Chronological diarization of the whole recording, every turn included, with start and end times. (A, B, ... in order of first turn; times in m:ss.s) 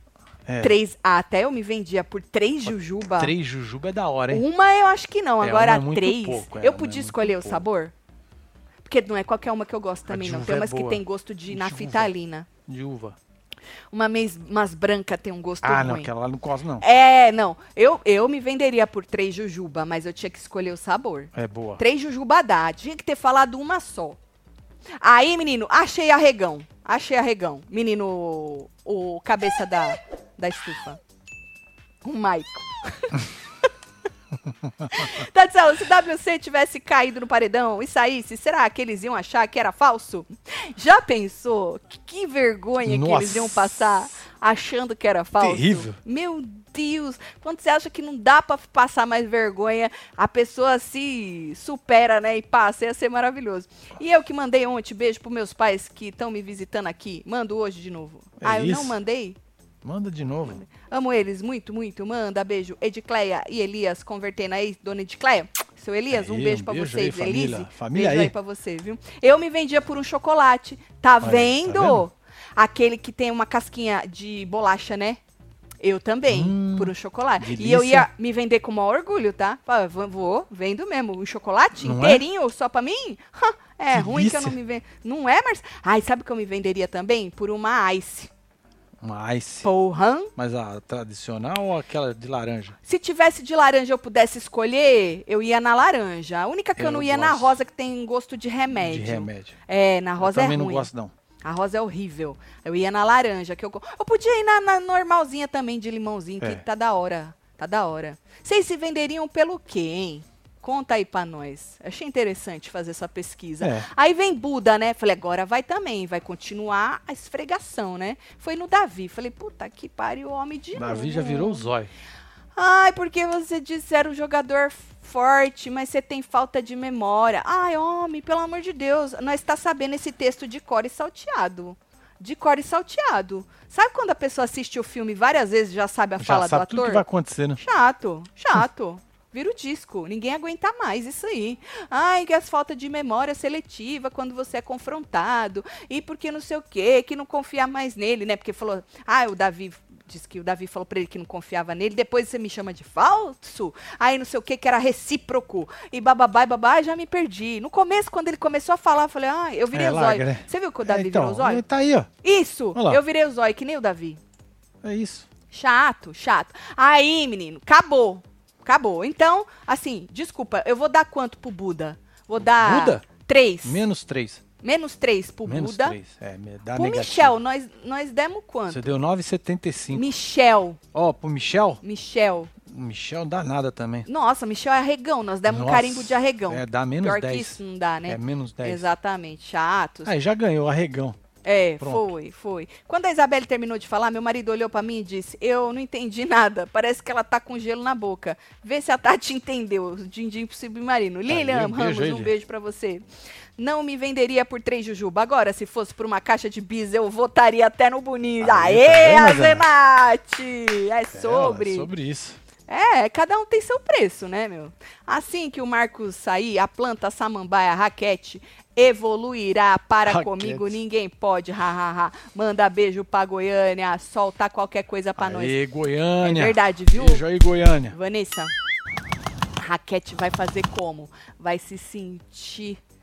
0:00.4-0:00.8 A
0:00.6-0:03.3 B
0:02.7-0:04.4 A
0:04.3-0:07.9 B
0:05.4-0:07.6 A
0:08.8-0:12.5 B
0:10.1-0:12.1 A
0:12.6-0:13.2 A
0:13.9-0:16.1 B
0:15.6-0:16.8 A
0:16.8-0:24.2 B
0:21.3-0:21.8 A
0:25.0-0:31.0 B
0:32.0-0:33.2 B
0:34.6-0:35.1 A
0:34.9-0:59.4 B
0:42.8-0:43.8 A
0:45.4-0:46.0 A
0:58.4-0:59.0 A
0:59.8-1:00.6 A
1:00.5-1:15.2 B
1:06.1-1:08.3 A
1:11.2-1:12.0 A
1:15.8-1:28.3 B
1:16.3-1:18.1 A
1:21.8-1:22.2 A
1:23.9-1:24.6 A
1:29.0-1:29.7 A
1:29.6-1:30.3 B
1:30.4-1:32.8 A
1:32.8-1:40.9 B
1:36.8-1:37.6 A
1:38.7-1:39.6 A
1:40.2-1:41.1 A
1:41.4-2:01.7 B
1:53.6-1:53.9 A
2:00.7-2:01.9 A
2:02.6-2:17.0 B
2:16.2-2:17.6 A
2:17.6-2:41.6 B
2:39.7-2:42.1 A
2:42.2-2:44.2 B
2:42.7-2:43.0 A
2:44.8-2:45.3 A
2:45.5-2:53.8 B
2:52.6-2:53.0 A
2:53.6-2:54.4 A
2:54.6-2:56.0 B
2:55.4-2:57.4 A
2:56.7-2:58.8 B
2:58.7-3:00.1 A
2:59.9-3:00.8 B
3:00.9-3:01.8 A
3:01.8-3:02.5 B
3:02.6-3:04.1 A
3:04.0-3:10.1 B
3:05.5-3:08.9 A
3:10.0-3:11.2 A
3:11.4-3:23.0 B
3:11.8-3:12.1 A
3:21.3-3:22.3 A
3:23.6-3:31.9 B
3:28.4-3:29.6 A
3:31.1-3:32.4 A
3:32.7-3:45.6 B
3:40.0-3:40.8 A
3:45.2-3:48.0 A
3:46.2-3:47.2 B
3:47.9-3:48.5 B
3:49.6-3:52.8 B